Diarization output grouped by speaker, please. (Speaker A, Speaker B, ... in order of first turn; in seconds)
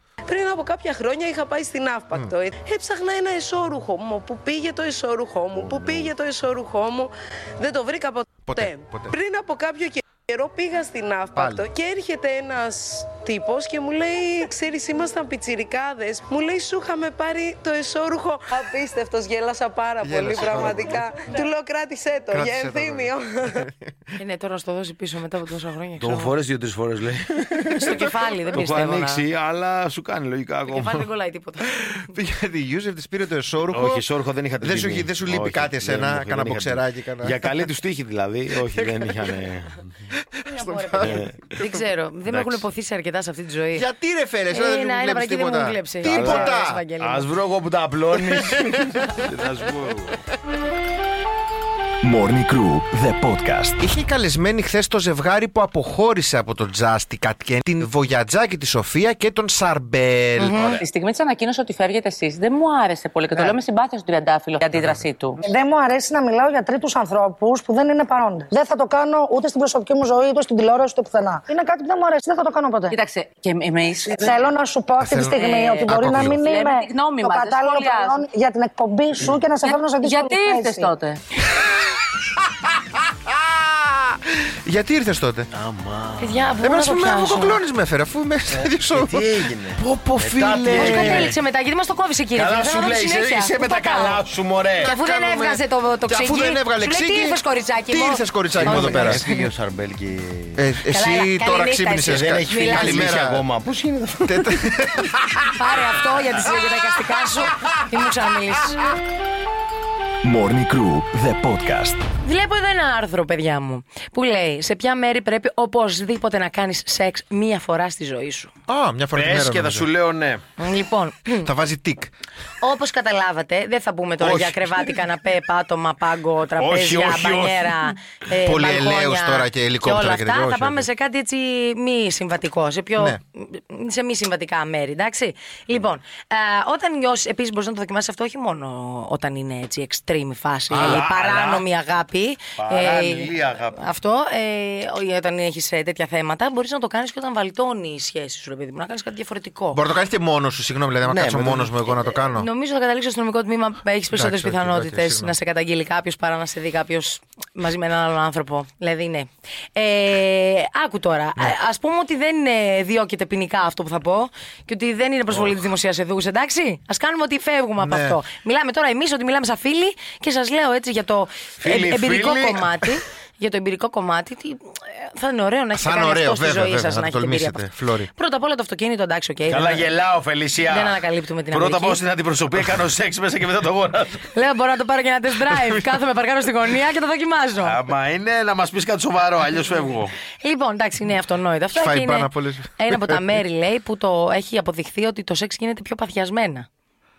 Speaker A: 0.3-23.7
Speaker B: 5.5-6.1, 20.4-20.8, 26.0-31.1, 33.7-39.9, 41.0-41.5, 42.3-42.6, 46.0-50.2, 60.6-60.8, 85.5-86.6, 88.5-91.4, 92.3-94.9, 98.5-100.6, 102.1-104.7, 119.1-120.4, 124.2-125.0, 126.6-127.9, 140.7-141.7, 142.6-143.8, 151.0-152.2, 171.6-172.7, 179.5-181.0, 181.5-184.3, 187.6-190.2
Speaker C: 8.5-9.1, 11.3-11.7, 20.0-21.0, 22.3-23.7, 27.8-28.1, 32.0-34.0, 34.6-37.4, 38.7-39.3, 40.4-41.8, 43.7-46.8, 48.2-49.2, 53.8-60.8, 63.3-63.6, 64.7-65.0, 75.0-76.5, 81.5-82.0, 82.6-85.5, 86.6-91.3, 94.8-99.2, 100.6-103.4, 104.3-105.6, 118.7-119.9, 121.4-122.1, 128.4-130.9, 140.7-141.0, 149.7-152.5, 154.1-155.3, 167.8-168.2, 175.8-178.1, 191.8-193.2
Speaker D: 24.2-26.3, 27.8-29.2, 30.7-31.8, 40.5-43.9, 44.5-47.3, 60.4-60.6, 86.2-87.6, 90.7-94.2, 94.8-99.5, 100.9-103.1, 105.6-108.8, 112.2-118.5, 120.6-121.5, 122.6-149.8, 152.4-179.9, 180.7-182.0, 184.3-187.8, 190.4-196.7
Speaker E: 52.0-53.8, 110.2-112.0
Speaker F: 60.7-65.4, 72.9-74.5, 75.2-78.2, 79.6-81.2
Speaker G: 65.4-73.0, 74.1-80.9